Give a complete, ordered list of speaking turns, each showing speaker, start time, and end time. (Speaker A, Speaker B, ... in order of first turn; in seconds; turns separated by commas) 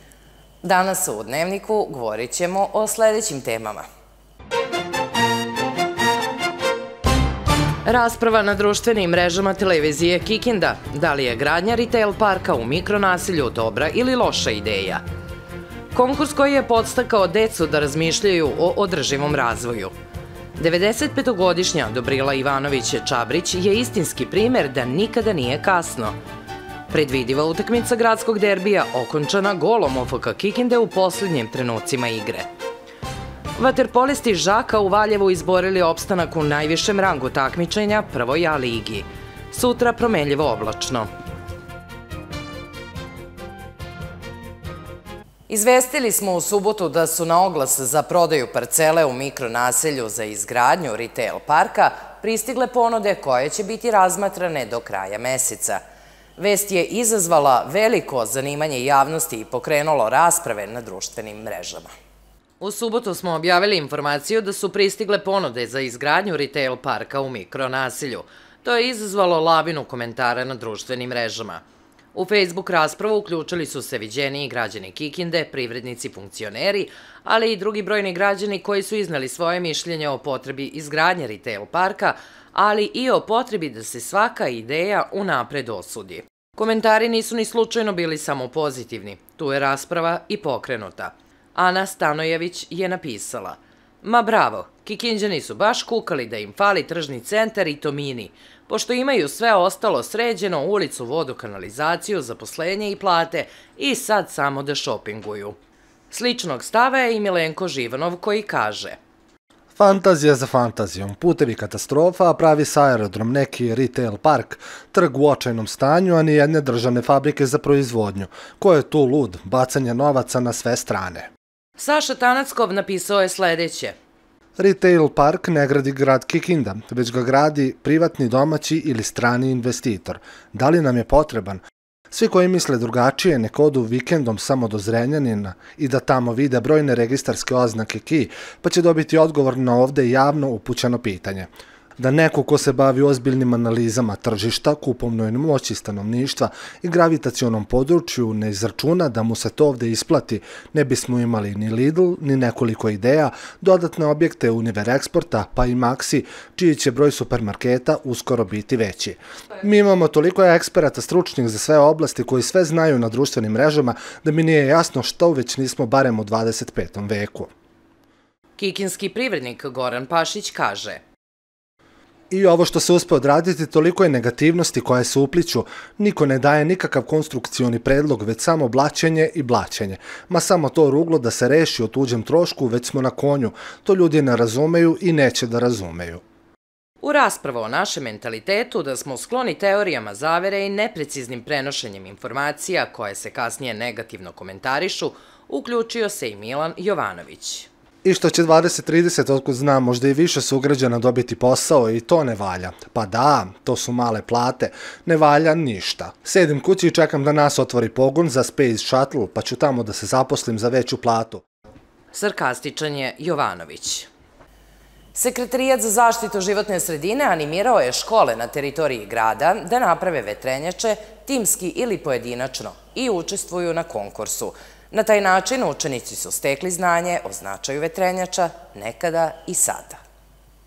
Speaker A: 0.6-3.9, Speaker A: 7.8-15.0, Speaker A: 15.9-19.9, Speaker A: 20.6-26.1, Speaker A: 26.9-32.5, Speaker A: 33.6-41.1, Speaker A: 45.5-55.8, Speaker A: 56.4-61.9, Speaker A: 62.6-71.6, Speaker A: 72.1-105.5, Speaker A: 106.1-109.0, Speaker B: 109.8-121.3, Speaker A: 121.8-124.0, Speaker B: 124.6-167.5, Speaker A: 168.6-171.0, Speaker B: 172.3-186.2, Speaker A: 187.0-197.7, Speaker B: 198.0-211.4, Speaker A: 212.1-214.1, Speaker A: 215.1-230.0